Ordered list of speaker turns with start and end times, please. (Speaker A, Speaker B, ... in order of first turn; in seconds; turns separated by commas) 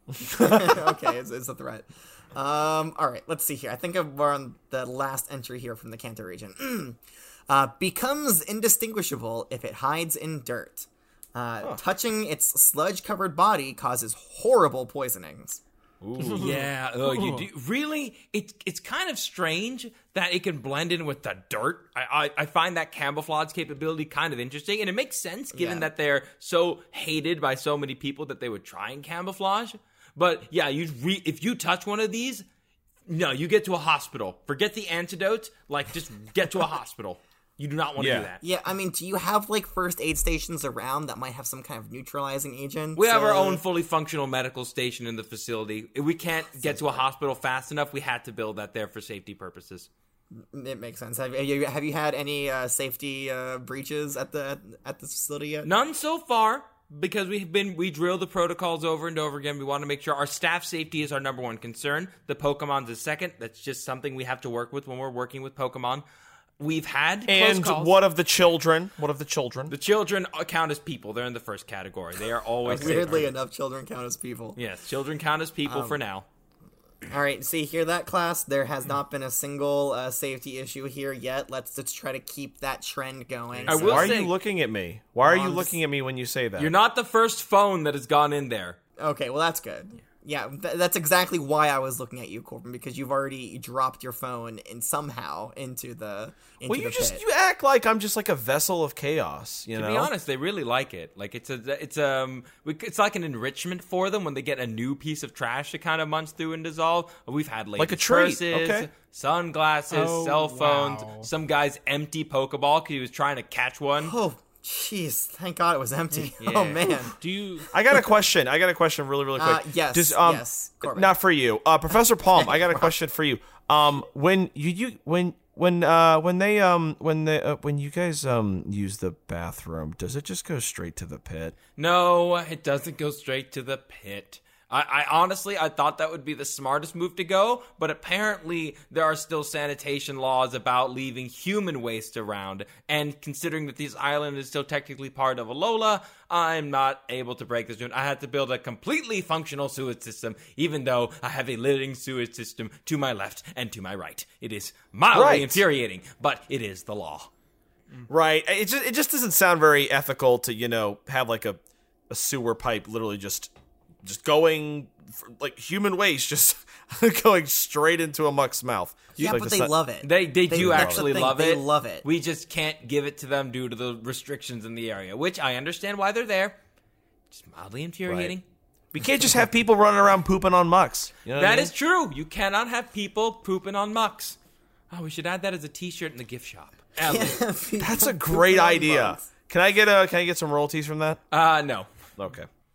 Speaker A: 0.2-0.8, Speaker B: 0.3-15.6, Speaker A: 16.0-16.7, Speaker C: 16.2-17.4, Speaker D: 16.4-32.4, Speaker B: 25.5-25.9, Speaker D: 33.1-38.4, Speaker A: 38.0-38.3, Speaker B: 38.4-43.6, Speaker D: 43.0-49.9, Speaker B: 46.5-47.0, Speaker B: 50.4-55.7, Speaker D: 55.6-66.0, Speaker D: 66.6-68.0, Speaker A: 67.3-69.7, Speaker D: 69.7-73.3, Speaker B: 72.7-74.6, Speaker A: 72.7-73.0, Speaker D: 74.6-76.3, Speaker B: 75.7-76.0, Speaker B: 77.1-84.2, Speaker D: 83.7-84.3, Speaker A: 83.7-86.7, Speaker B: 85.2-85.8, Speaker D: 86.6-88.8, Speaker B: 89.0-97.2, Speaker A: 96.7-100.1, Speaker D: 99.7-114.2, Speaker A: 107.8-108.9, Speaker C: 109.9-111.3, Speaker B: 114.0-117.2, Speaker D: 116.4-117.0, Speaker C: 117.2-117.7, Speaker A: 117.7-131.6, Speaker B: 119.4-121.1, Speaker B: 122.4-122.9, Speaker D: 131.8-157.3, Speaker A: 155.1-155.6, Speaker A: 158.1-163.5, Speaker A: 164.0-169.7, Speaker B: 169.2-172.1, Speaker D: 170.0-176.6, Speaker A: 170.5-171.3, Speaker D: 177.3-178.4, Speaker A: 178.1-178.3, Speaker A: 178.9-181.7, Speaker D: 181.3-184.4, Speaker D: 184.9-187.4, Speaker B: 187.0-189.3, Speaker A: 187.8-191.2, Speaker D: 191.3-191.9, Speaker A: 192.2-192.5